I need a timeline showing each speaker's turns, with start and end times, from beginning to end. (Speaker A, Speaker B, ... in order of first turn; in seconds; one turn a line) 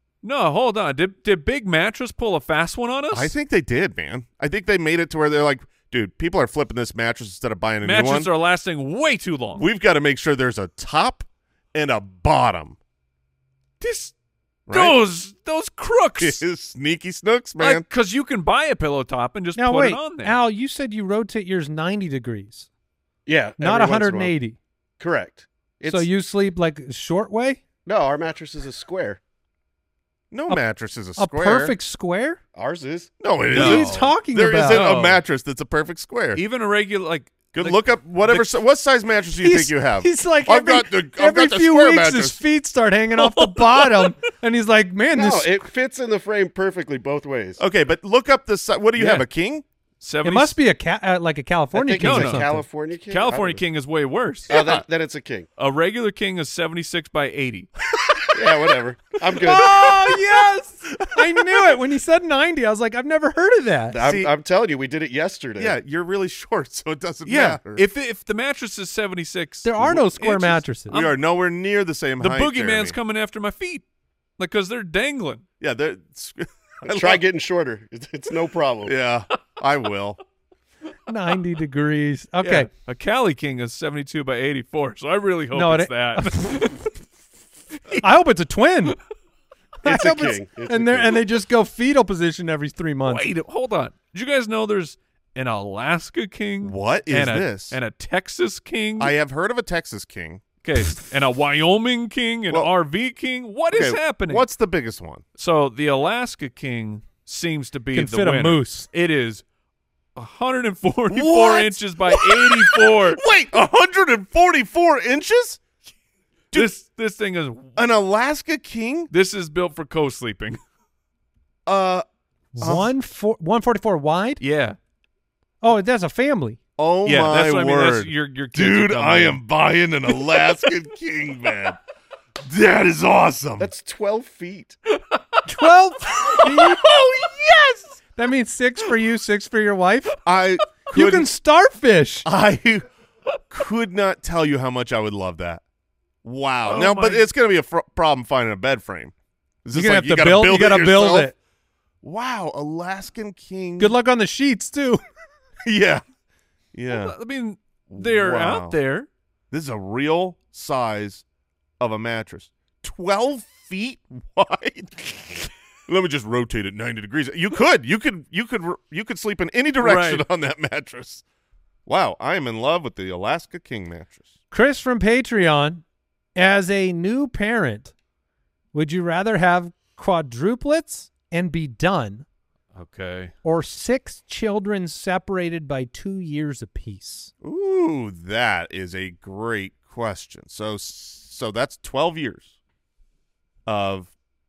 Speaker A: 0.2-3.3
Speaker B: 3.1-8.3
Speaker A: 7.8-9.7
Speaker B: 9.6-12.8
Speaker A: 13.8-14.1
Speaker B: 14.7-15.0
Speaker A: 14.7-16.4
Speaker B: 16.2-17.9
Speaker A: 17.6-20.4
Speaker C: 19.6-22.7
Speaker D: 23.3-24.3
Speaker C: 23.6-24.6
Speaker D: 25.0-26.1
Speaker C: 25.9-27.6
Speaker D: 27.9-29.2
Speaker B: 30.3-31.8
Speaker C: 31.2-32.4
Speaker D: 32.6-33.1
Speaker B: 33.2-36.4
Speaker A: 33.5-34.1
Speaker C: 33.5-34.9
Speaker A: 34.6-35.2
Speaker A: 36.4-38.5
Speaker B: 37.5-42.4
Speaker C: 39.4-45.6
Speaker A: 43.2-44.1
Speaker D: 45.1-47.6
Speaker B: 47.6-49.6
Speaker A: 49.0-49.2
Speaker A: 50.0-50.6
Speaker C: 50.2-52.7
Speaker D: 51.7-53.6
Speaker A: 52.0-52.5
Speaker A: 53.1-54.5
Speaker B: 54.5-54.9
Speaker D: 54.5-55.5
Speaker A: 55.6-57.7
Speaker D: 58.3-59.7
Speaker B: 58.4-58.8
Speaker C: 59.4-64.0
Speaker D: 63.9-65.8
Speaker B: 64.0-64.3
Speaker B: 65.6-67.8
Speaker A: 67.3-71.2
Speaker C: 69.6-71.0
Speaker B: 70.9-73.0
Speaker A: 72.2-73.8
Speaker A: 74.4-75.4
Speaker B: 75.6-77.2
Speaker D: 76.8-78.9
Speaker B: 78.8-80.2
Speaker C: 81.1-82.7
Speaker A: 82.4-86.9
Speaker C: 85.5-86.8
Speaker C: 88.0-89.0
Speaker C: 89.8-93.3
Speaker D: 89.8-91.2
Speaker A: 93.0-99.1
Speaker B: 96.6-97.8
Speaker B: 99.0-100.4
Speaker A: 100.6-104.5
Speaker B: 103.7-105.2
Speaker A: 105.4-109.4
Speaker C: 107.9-108.9
Speaker A: 110.2-113.2
Speaker B: 111.1-115.6
Speaker A: 116.5-117.8
Speaker B: 117.8-119.1
Speaker A: 119.1-120.6
Speaker B: 121.7-122.0
Speaker C: 122.6-124.4
Speaker B: 122.6-122.9
Speaker A: 124.4-124.8
Speaker C: 125.6-126.6
Speaker B: 126.8-131.8
Speaker A: 127.0-129.4
Speaker B: 132.4-133.7
Speaker D: 133.6-134.8
Speaker C: 135.5-136.8
Speaker B: 136.5-137.9
Speaker C: 138.2-140.2
Speaker B: 140.2-141.3
Speaker C: 140.9-142.3
Speaker B: 142.2-142.9
Speaker B: 143.5-145.6
Speaker B: 146.2-149.1
Speaker A: 146.7-147.3
Speaker B: 149.7-151.3
Speaker C: 149.7-151.3
Speaker B: 152.0-153.9
Speaker C: 153.8-155.0
Speaker B: 155.7-156.0
Speaker B: 156.7-157.1
Speaker A: 156.9-159.1
Speaker B: 157.9-158.8
Speaker B: 159.5-161.2
Speaker B: 161.8-171.2
Speaker A: 169.8-170.2
Speaker B: 171.9-174.3
Speaker C: 174.5-175.8
Speaker C: 176.3-177.9
Speaker C: 178.7-182.2
Speaker A: 182.7-183.3
Speaker C: 183.4-187.3
Speaker B: 187.4-192.5
Speaker B: 193.7-194.1